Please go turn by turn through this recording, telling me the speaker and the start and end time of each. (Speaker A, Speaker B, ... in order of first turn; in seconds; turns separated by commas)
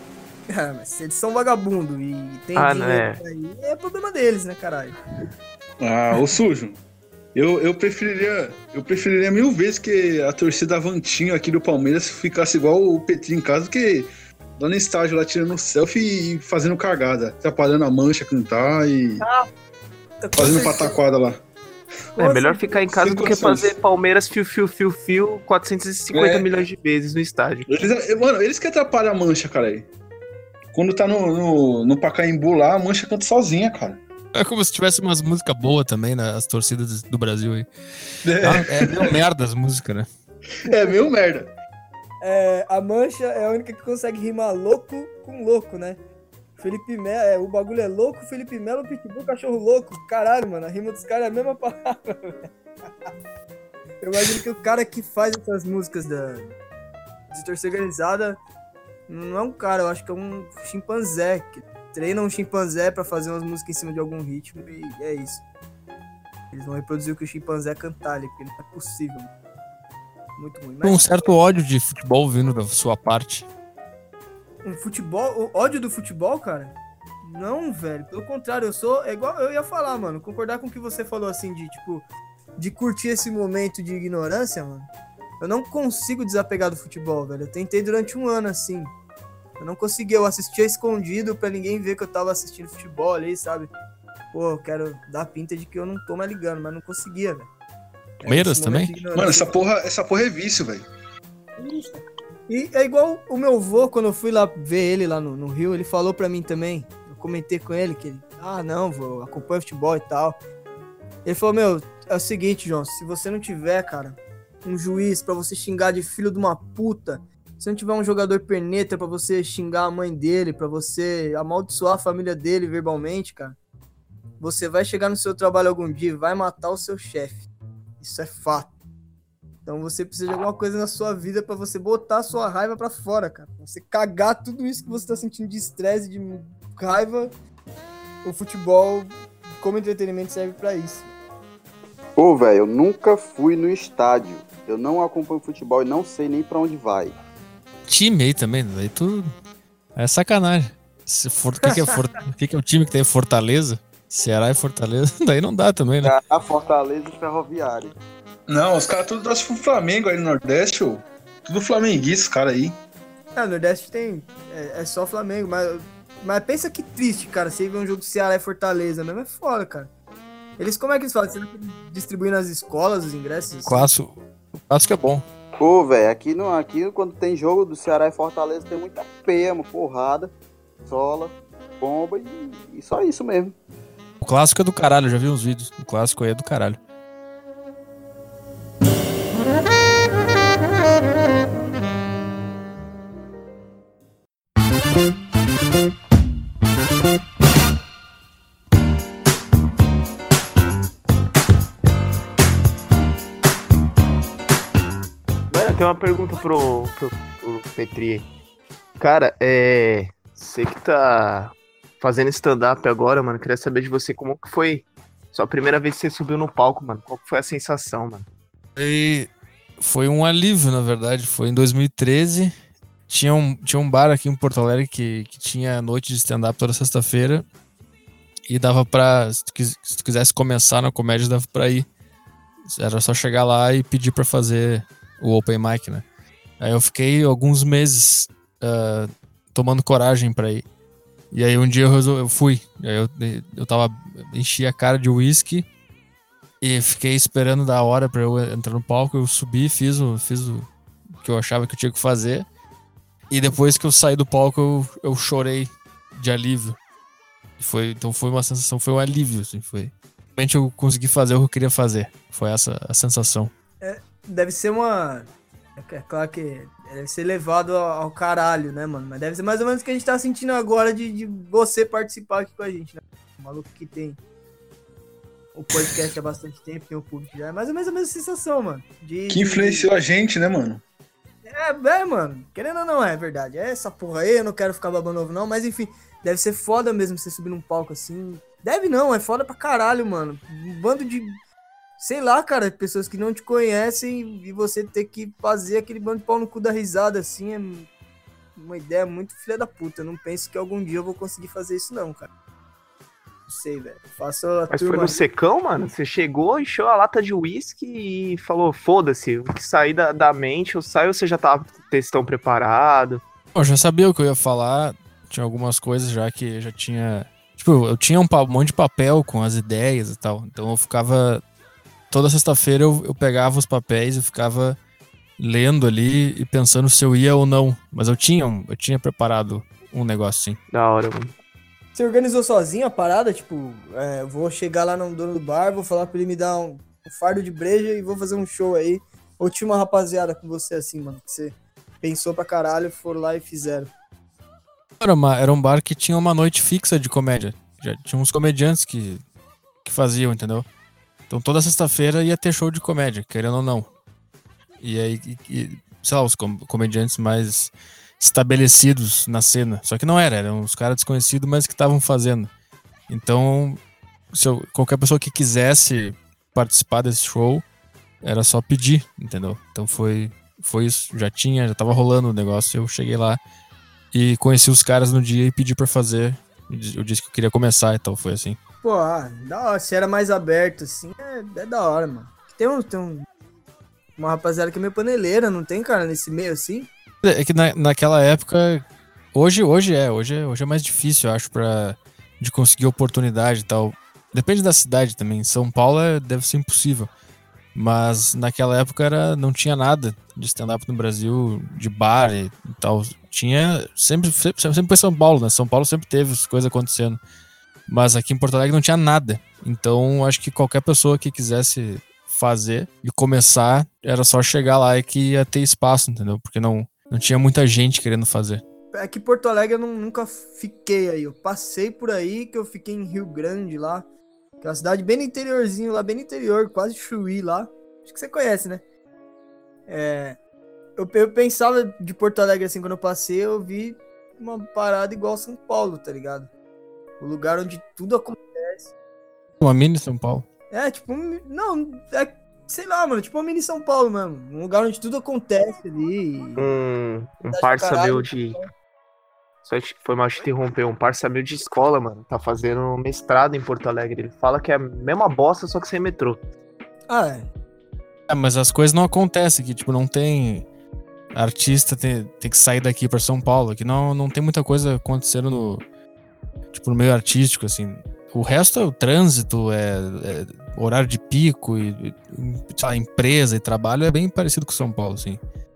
Speaker A: 0.5-5.0, Speaker B: 2.5-3.2, Speaker C: 5.8-6.8, Speaker C: 7.3-19.2, Speaker A: 19.2-19.5, Speaker A: 20.2-21.0, Speaker C: 20.4-21.4, Speaker A: 22.2-22.9, Speaker B: 22.2-27.7, Speaker C: 22.9-23.8, Speaker C: 26.1-26.6, Speaker C: 27.7-29.9, Speaker C: 30.7-34.0, Speaker D: 34.4-37.7, Speaker C: 38.2-39.2, Speaker D: 38.4-40.1, Speaker C: 40.6-41.5, Speaker A: 42.2-46.0, Speaker A: 46.6-52.4, Speaker A: 54.0-56.5, Speaker A: 57.3-58.4, Speaker A: 59.1-65.4, Speaker A: 66.5-69.3, Speaker A: 70.4-71.3, Speaker D: 70.8-73.5, Speaker A: 74.6-82.0, Speaker A: 82.6-88.9, Speaker A: 89.6-93.7, Speaker A: 94.3-97.5, Speaker A: 98.2-99.5, Speaker D: 98.3-98.9, Speaker C: 99.1-100.9, Speaker A: 101.6-110.4, Speaker A: 111.2-123.6, Speaker A: 124.4-127.5, Speaker A: 128.0-128.8, Speaker A: 129.7-137.3, Speaker A: 138.2-141.1, Speaker E: 142.2-147.2, Speaker D: 147.9-149.3, Speaker D: 150.0-156.2, Speaker E: 156.0-157.9, Speaker C: 158.5-162.8, Speaker A: 163.3-169.9, Speaker A: 170.6-173.9, Speaker D: 173.7-175.2, Speaker E: 175.6-180.3, Speaker E: 180.9-183.6, Speaker D: 184.2-186.8, Speaker B: 205.5-208.3, Speaker B: 209.0-218.3, Speaker D: 218.8-222.5, Speaker D: 223.1-227.4, Speaker D: 228.5-231.9, Speaker D: 232.7-236.1, Speaker D: 236.6-240.7, Speaker D: 241.3-245.7, Speaker D: 246.6-250.7, Speaker D: 251.2-252.5, Speaker D: 253.3-256.8, Speaker D: 257.6-263.5, Speaker A: 263.8-274.2, Speaker A: 275.6-279.9, Speaker C: 279.3-280.8, Speaker A: 281.4-291.4, Speaker A: 292.0-297.9, Speaker A: 298.6-302.3, Speaker A: 303.5-305.2, Speaker B: 304.7-313.2, Speaker D: 313.6-321.4, Speaker D: 322.1-324.8, Speaker D: 325.4-330.6, Speaker B: 330.7-331.3, Speaker A: 331.9-343.9, Speaker D: 345.0-349.2, Speaker D: 349.8-350.7, Speaker D: 351.3-353.9, Speaker D: 354.8-362.5, Speaker D: 363.1-363.8, Speaker D: 364.3-367.6, Speaker D: 368.2-373.4, Speaker D: 374.1-378.6, Speaker A: 378.8-383.3, Speaker A: 384.2-386.9, Speaker D: 387.2-397.1, Speaker D: 397.8-407.2, Speaker D: 407.9-418.6, Speaker A: 418.9-424.1, Speaker A: 424.6-428.8, Speaker A: 429.9-430.4, Speaker A: 431.0-436.5, Speaker A: 437.2-438.9, Speaker D: 439.6-440.5, Speaker A: 440.7-446.7, Speaker B: 446.6-448.6, Speaker A: 447.5-448.7, Speaker B: 449.6-456.4, Speaker A: 457.1-457.5, Speaker D: 458.3-460.6, Speaker D: 461.3-465.8, Speaker D: 466.7-475.4